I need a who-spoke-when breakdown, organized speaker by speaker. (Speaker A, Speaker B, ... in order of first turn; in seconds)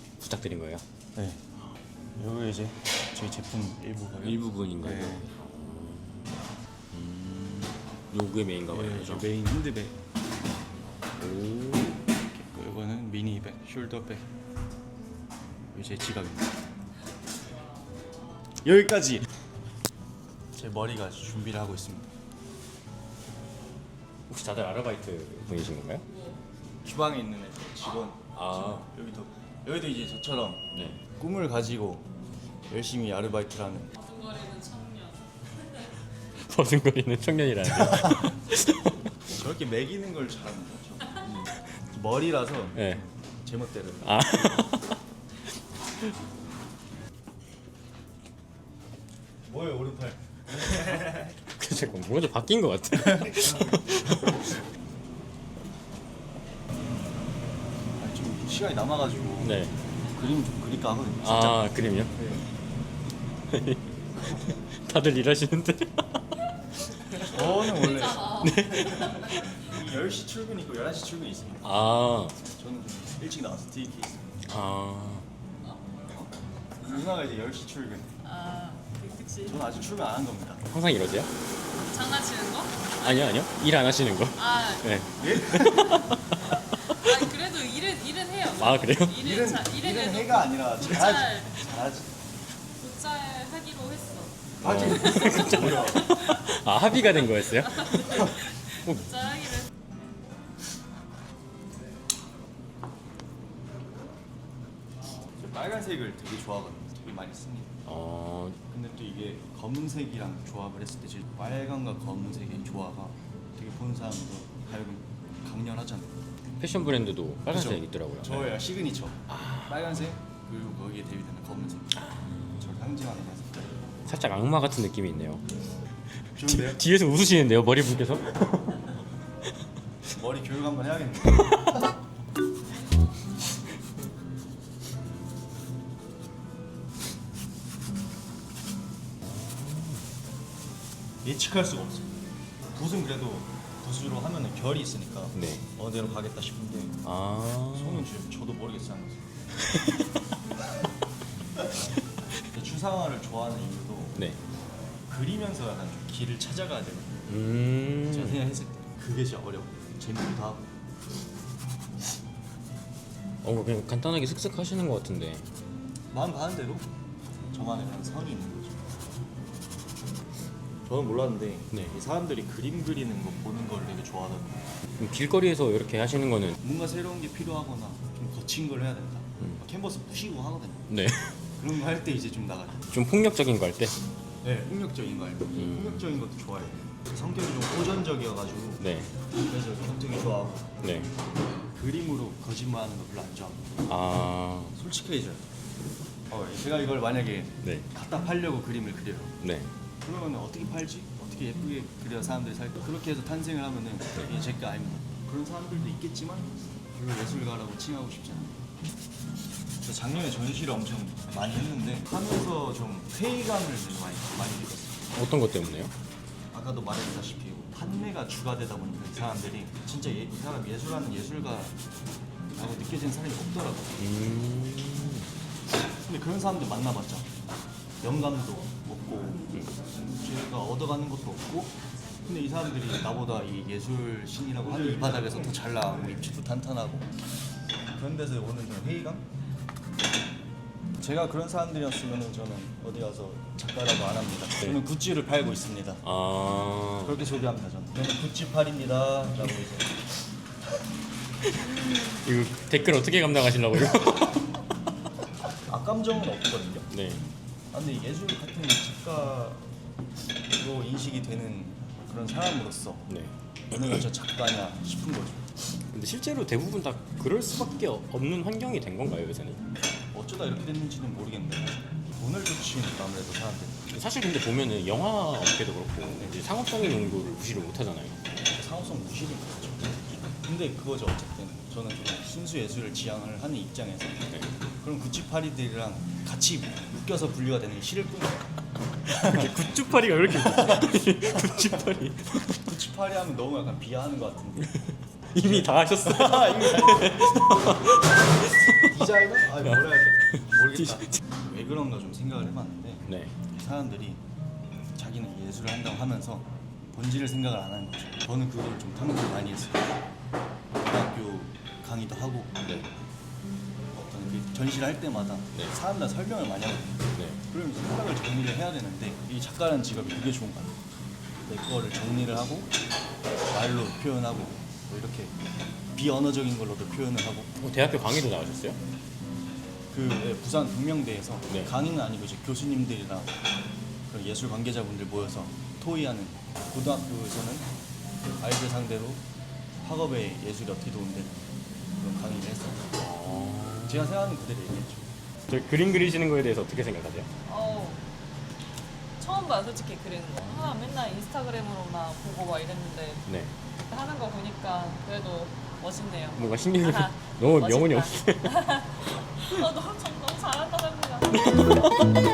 Speaker A: 0.2-0.8, 4.2-6.4, 6.9-9.3, 11.2-12.1, 24.3-26.1, 28.3-28.9, 30.7-31.0, 36.4-38.9, 42.7-43.0, 44.0-45.0, 51.5-54.6, 59.4-59.7, 61.2-62.1, 63.5-66.2, 68.4-69.4, 71.6-72.3, 74.4-75.2, 80.7-81.3, 83.0-87.0, 88.6-89.2, 94.6-99.1, 107.8-108.6, 116.6-118.6, 119.3-119.9, 122.0-122.6, 124.0-125.4, 126.3-128.8, 131.3-131.8, 139.2-140.0, 145.3-145.6, 147.0-148.1, 149.6-150.0, 157.3-158.4, 163.4-165.4, 175.0-176.6, 180.9-181.4, 182.9-183.9, 185.5-186.1, 188.8-189.1, 190.8-191.1, 193.9-194.8, 199.4-199.7, 215.1-215.9, 224.0-225.3, 246.0-247.2, 251.4-254.4, 256.9-257.3, 263.1-264.0, 265.9-269.6, 273.9-278.2, 289.1-292.6, 294.7-299.0, 299.5-301.2, 303.1-303.3, 312.6-312.9, 327.6-328.8, 343.0-344.1, 345.5-347.3, 353.2-353.5, 356.4-358.5
Speaker B: 1.1-1.4, 2.1-5.3, 8.7-10.0, 12.2-14.3, 15.7-16.6, 18.6-19.3, 20.5-22.1, 26.8-32.1, 32.7-33.9, 37.8-38.3, 39.3-44.2, 49.4-51.4, 53.0-54.3, 58.0-62.4, 67.2-74.3, 76.8-78.1, 79.4-80.6, 85.2-86.1, 89.1-92.2, 94.6-96.1, 105.3-107.8, 108.7-116.2, 117.5-122.0, 122.6-123.9, 126.3-126.8, 130.1-131.9, 141.2-142.1, 142.7-147.0, 147.7-149.4, 151.6-151.9, 152.5-154.2, 155.1-157.2, 158.1-160.6, 166.1-166.9, 167.5-168.9, 170.8-174.6, 176.6-180.9, 181.6-182.9, 184.4-188.8, 189.3-190.9, 191.7-193.8, 194.8-195.4, 196.3-199.3, 200.0-208.6, 209.8-215.0, 216.5-221.8, 222.5-224.0, 226.0-227.3, 228.0-237.1, 237.9-239.3, 241.0-246.0, 247.0-250.0, 255.7-256.9, 257.7-259.7, 260.5-263.1, 263.7-265.6, 270.1-273.9, 278.5-284.3, 284.8-288.5, 289.1-289.5, 290.3-291.8, 292.5-294.8, 295.4-297.9, 298.7-304.2, 304.9-310.0, 310.8-312.5, 313.9-320.8, 321.4-322.7, 323.5-325.4, 325.9-327.5, 329.9-333.4, 334.1-337.7, 338.4-339.2, 339.8-343.0, 343.9-345.1
Speaker C: 17.4-18.3, 26.1-26.4, 33.9-36.0, 67.2-69.5, 75.6-76.3, 78.2-79.6, 81.8-83.4, 84.3-85.0, 86.8-91.6, 92.8-99.7, 347.4-348.0, 349.2-353.2, 353.9-362.2